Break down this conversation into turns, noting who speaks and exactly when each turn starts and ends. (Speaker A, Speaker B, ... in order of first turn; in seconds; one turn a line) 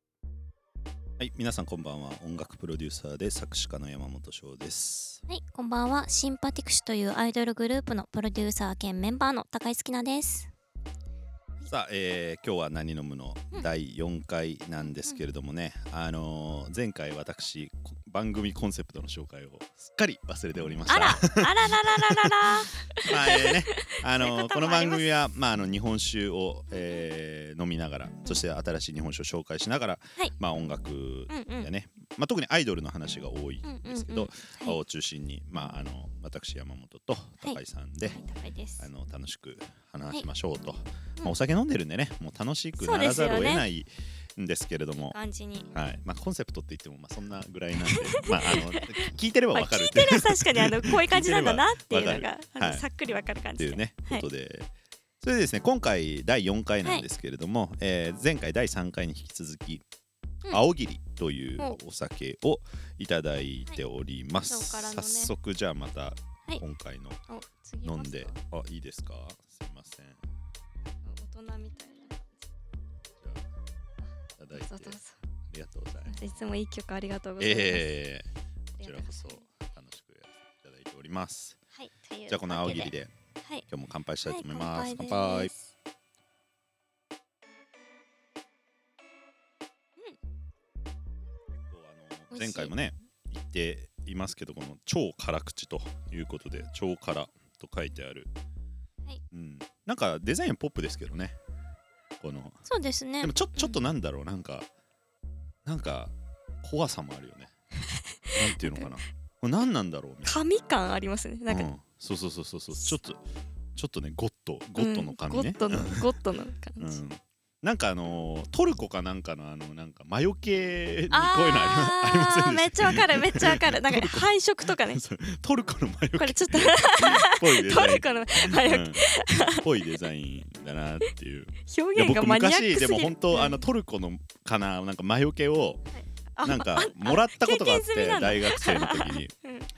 Speaker A: 1.2-5.2
Speaker B: 5.3-10.5
Speaker A: 11.7-38.2
Speaker B: 20.9-25.1
Speaker B: 26.7-27.0
Speaker B: 31.3-31.7
Speaker B: 33.6-34.8
Speaker B: 38.1-38.9
Speaker A: 38.8-45.2
Speaker B: 42.8-43.7
Speaker B: 45.1-45.7
Speaker A: 45.7-52.9
Speaker B: 47.8-54.3
Speaker A: 53.6-54.7
Speaker A: 55.2-59.8
Speaker A: 60.5-67.2
Speaker B: 64.5-65.3
Speaker B: 67.3-68.4
Speaker A: 67.8-70.2
Speaker B: 71.0-72.5
Speaker A: 74.4-75.0
Speaker B: 74.5-75.2
Speaker A: 75.5-76.3
Speaker B: 76.0-77.9
Speaker A: 77.4-78.3
Speaker B: 78.8-79.4
Speaker A: 78.8-81.6
Speaker B: 81.8-83.6
Speaker A: 82.3-83.1
Speaker A: 83.7-85.5
Speaker B: 84.2-85.7
Speaker A: 91.7-98.3
Speaker B: 92.3-92.7
Speaker A: 99.3-101.4
Speaker A: 102.2-102.6
Speaker B: 102.7-103.8
Speaker A: 103.2-104.7
Speaker A: 105.7-107.5
Speaker B: 107.9-108.9
Speaker A: 108.3-110.4
Speaker B: 110.2-111.7
Speaker A: 111.5-113.2
Speaker A: 113.8-116.1
Speaker B: 114.8-117.0
Speaker A: 116.8-135.8
Speaker B: 121.1-125.0
Speaker B: 126.2-129.7
Speaker B: 131.7-133.7
Speaker B: 135.9-139.7
Speaker A: 136.4-139.3